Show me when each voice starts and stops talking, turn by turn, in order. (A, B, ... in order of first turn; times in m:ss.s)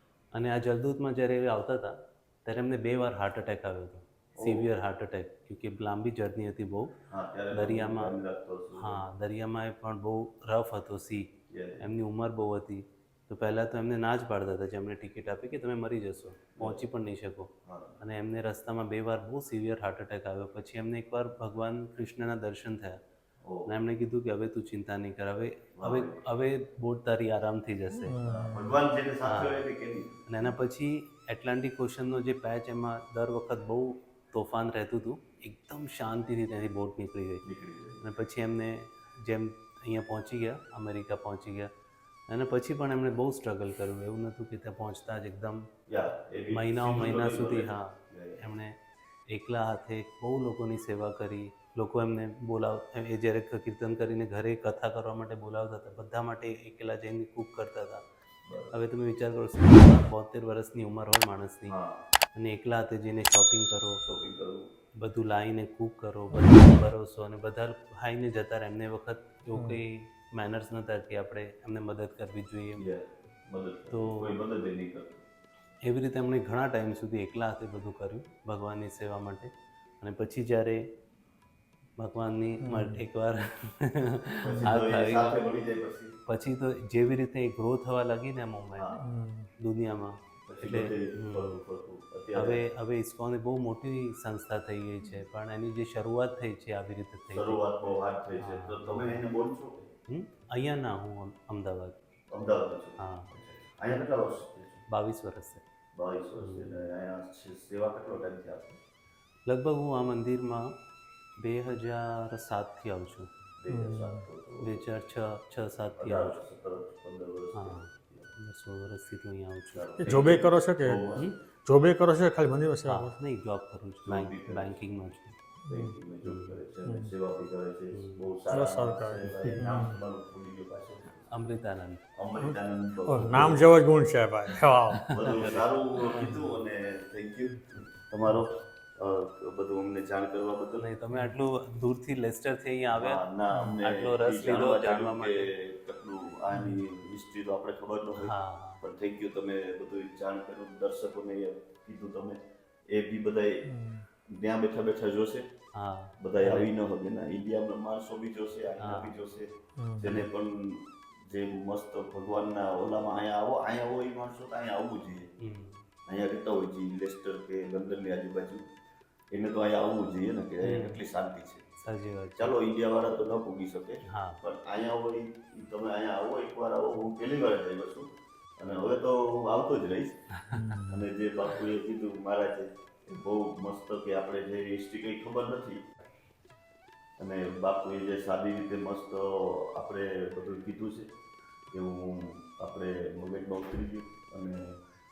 0:00.3-0:07.0 A
0:04.4-0:04.7 B
0:07.1-0:09.0 B
0:07.5-0:08.1 A
0:08.8-0:23.0 A
0:11.5-0:11.9 B
0:16.6-0:16.8 B
0:17.7-0:18.0 B
0:23.4-0:23.7 B
0:23.7-0:28.2 A
0:25.8-0:26.2 B
0:28.0-0:28.8 C
0:28.2-0:30.5 B
0:29.2-0:29.6 A
0:30.3-0:37.4 A
0:37.4-0:38.0 B
0:38.0-0:41.7 A
0:42.3-0:45.7 A
0:45.9-0:48.4 B
0:46.5-0:48.8 A
0:49.3-0:58.1 A
0:58.4-0:58.7 B
0:58.7-1:01.8 A
1:01.7-1:02.0 B
1:02.3-1:04.0 A
1:04.1-1:04.7 B
1:05.0-1:12.9 A
1:09.6-1:09.8 C
1:12.8-1:15.2 B
1:13.9-1:14.4 A
1:15.8-1:20.9 A
1:22.0-1:25.4 A
1:22.6-1:23.0 C
1:24.4-1:26.2 B
1:26.3-1:28.9 A
1:28.8-1:29.1 B
1:29.0-1:29.5 C
1:29.6-1:31.6 A
1:30.5-1:32.6 B
1:32.3-1:37.6 A
1:37.3-1:39.9 B
1:38.4-1:39.2 A
1:40.1-1:42.0 A
1:42.3-1:44.8 B
1:43.0-1:43.3 A
1:44.9-1:45.6 A
1:45.9-1:48.8 B
1:46.4-1:46.9 A
1:49.5-1:50.8 A
1:51.4-1:53.3 A
1:53.6-1:54.9 B
1:53.7-1:54.2 C
1:54.6-1:56.4 A
1:56.0-1:58.3 B
1:57.5-2:00.1 A
1:59.7-2:01.3 B
2:00.0-2:01.0 C
2:01.6-2:03.1 C
2:02.9-2:05.4 A
2:04.0-2:04.8 B
2:05.7-2:11.3 B
2:05.7-2:06.0 C
2:06.2-2:06.6 A
2:06.9-2:07.1 C
2:07.9-2:08.3 A
2:08.5-2:10.0 C
2:11.3-2:12.0 A
2:12.1-2:13.8 B
2:12.4-2:15.0 C
2:14.7-2:16.2 A
2:15.1-2:20.9 B
2:16.2-2:16.4 C
2:20.8-2:25.5 A
2:22.9-2:33.7 B
2:26.5-2:26.8 C
2:28.2-2:28.8 A
2:33.7-2:34.0 C
2:34.3-2:35.5 B
2:35.7-2:36.7 A
2:36.2-2:45.3 B
2:38.8-2:39.2 A
2:39.8-2:40.2 C
2:45.4-2:45.9 A
2:46.1-2:48.7 B
2:49.3-2:51.6 B
2:50.6-2:51.0 A
2:51.8-2:52.6 A
2:52.4-3:00.2 B
2:54.0-2:54.4 A
3:00.4-3:00.8 A
3:00.5-3:01.1 C
3:00.8-3:05.9 B
3:07.2-3:11.1 B
3:11.7-3:14.8 B